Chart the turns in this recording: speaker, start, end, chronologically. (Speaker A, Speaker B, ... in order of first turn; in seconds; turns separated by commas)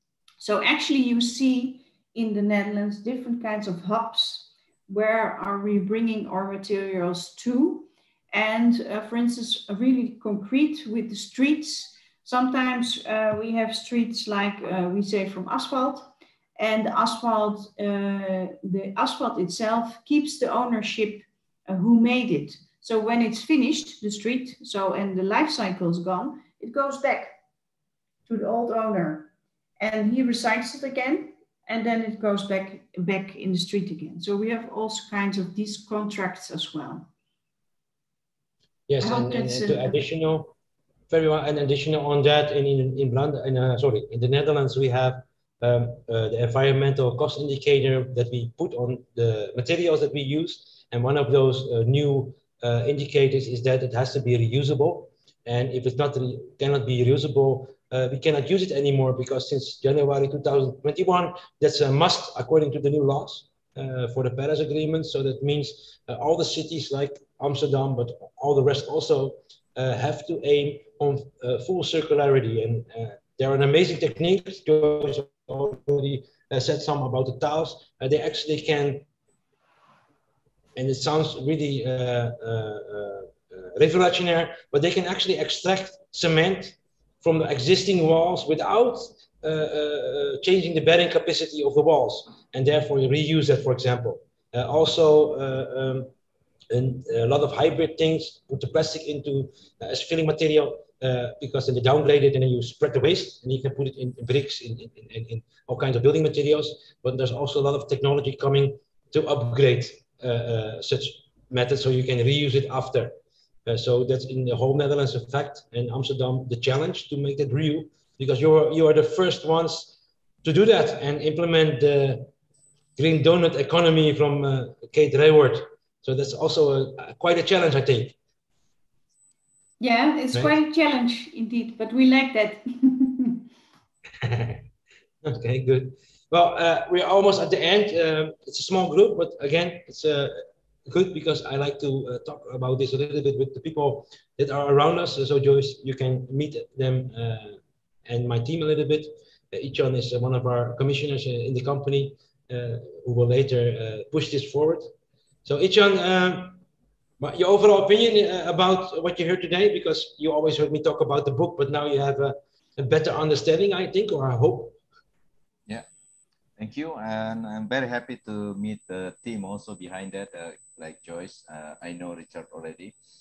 Speaker A: 0.4-27.4, Speaker A: 28.3-29.3, Speaker A: 29.8-37.1, Speaker B: 38.9-40.5, Speaker A: 39.0-40.0, Speaker B: 41.1-79.1, Speaker B: 80.8-96.1, Speaker B: 96.7-113.1, Speaker B: 113.7-122.3, Speaker B: 123.0-128.2, Speaker A: 129.8-133.4, Speaker B: 134.2-134.6, Speaker B: 135.2-154.9, Speaker B: 155.4-156.6, Speaker B: 157.2-164.8, Speaker C: 166.6-172.9